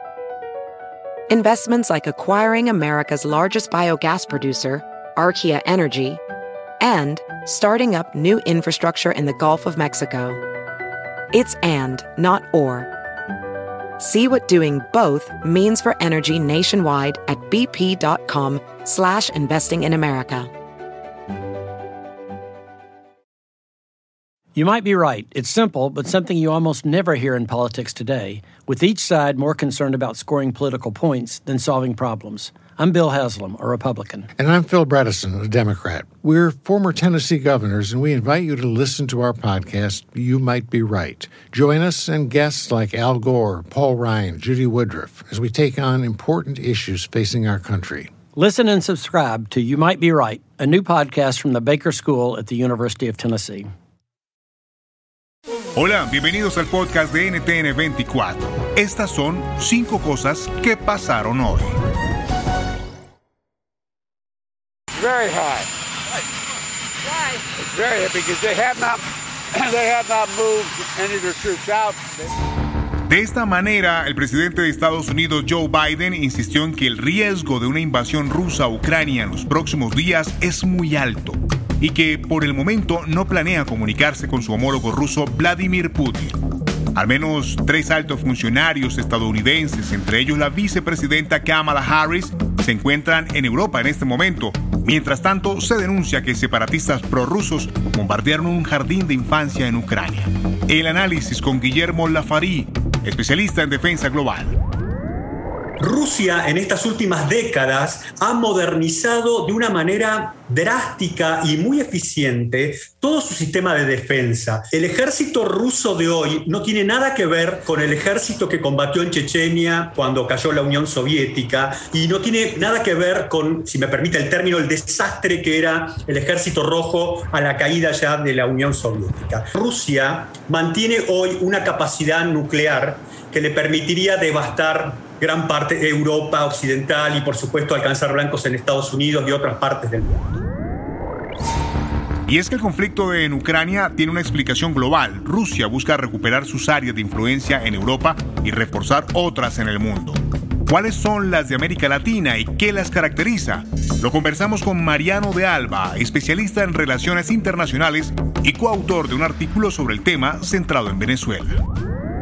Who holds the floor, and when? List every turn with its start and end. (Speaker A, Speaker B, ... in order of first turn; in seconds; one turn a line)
Speaker A: 1.3-6.2
Speaker A: 6.8-10.4
Speaker A: 11.3-12.9
Speaker A: 14.0-20.5
Speaker B: 24.6-34.3
Speaker C: 34.4-48.1
Speaker B: 48.4-53.7
Speaker D: 55.8-61.7
Speaker E: 65.1-65.6
Speaker E: 67.8-68.9
Speaker E: 69.8-72.0
Speaker D: 73.1-86.4
Speaker D: 87.0-104.5
Speaker F: 105.8-140.2
Speaker D: 142.3-161.6